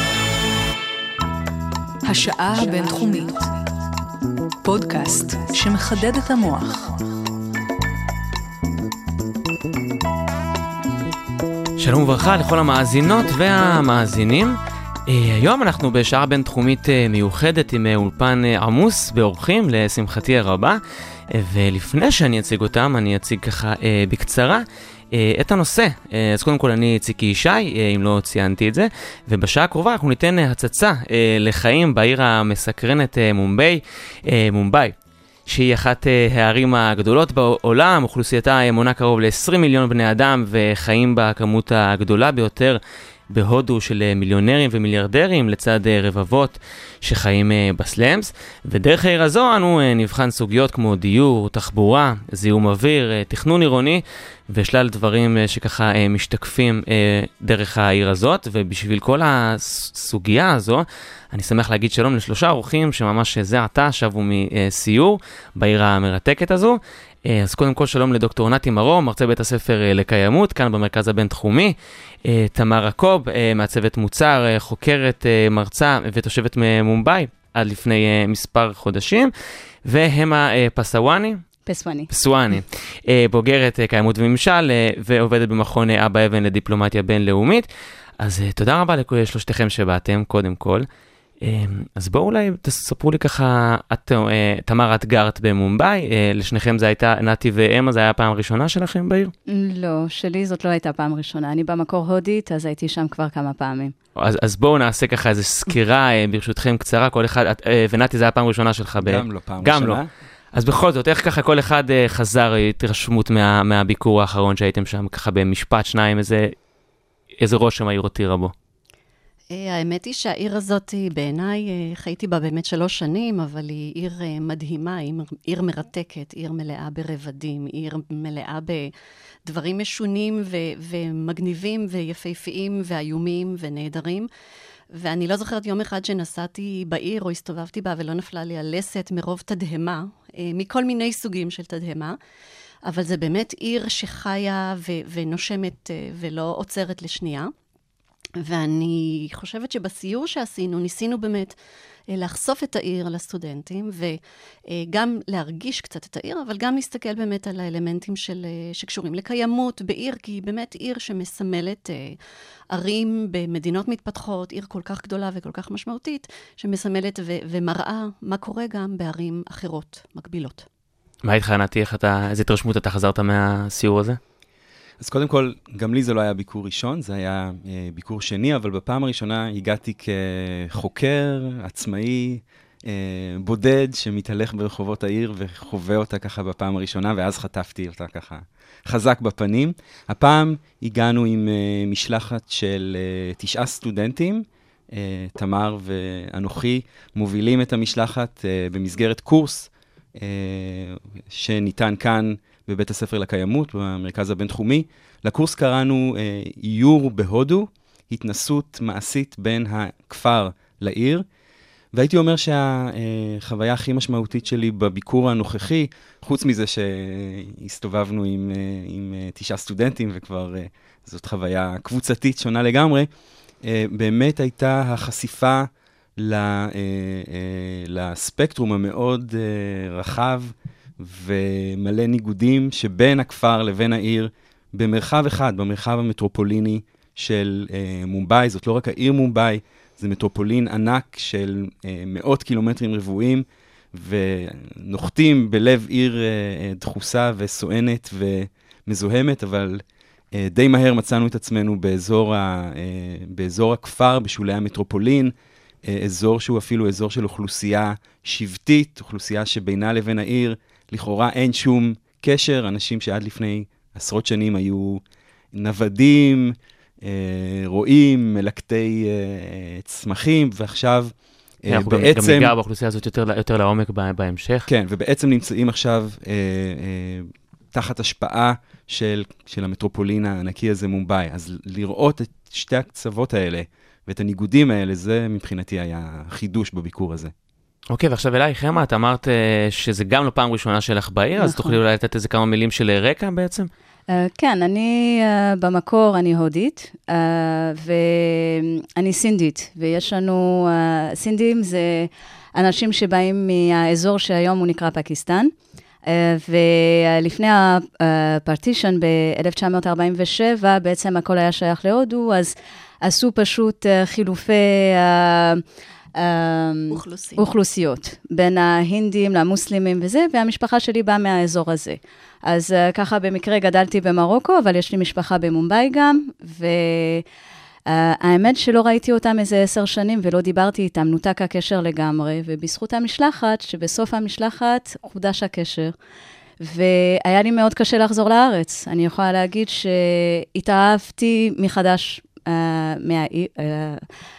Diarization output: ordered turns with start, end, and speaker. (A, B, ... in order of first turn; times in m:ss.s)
0:02.0-0:03.5 A
0:04.6-0:07.0 A
0:11.8-0:20.8 B
0:21.3-0:34.9 B
0:35.5-0:42.8 B
0:43.3-1:11.7 B
1:12.2-1:19.3 B
1:19.9-1:21.4 B
1:21.7-1:22.1 C
1:22.1-1:27.7 B
1:28.2-1:30.9 B
1:31.4-1:39.3 B
1:39.5-1:43.9 C
1:44.2-1:50.0 B
1:49.0-1:50.1 D
1:50.5-1:56.6 B
1:57.4-1:58.5 B
1:59.5-2:08.9 E
2:09.5-2:14.3 E
2:14.9-2:22.2 E
2:22.8-2:27.5 E
2:28.4-2:31.6 E
2:32.1-2:42.2 E
2:42.7-2:50.7 E
2:51.2-2:54.2 B
2:55.0-3:31.2 D
3:31.9-3:43.1 D
3:43.6-4:15.3 D
4:15.9-4:25.0 D
4:25.5-4:32.5 D
4:31.7-4:34.7 B
4:34.7-4:47.3 D
4:47.9-4:53.7 B
4:51.4-4:51.8 C
4:54.1-5:05.5 C
5:06.1-5:15.6 C
5:16.2-5:27.2 C
5:16.9-5:17.5 E
5:27.9-5:35.9 C
5:36.6-5:44.0 C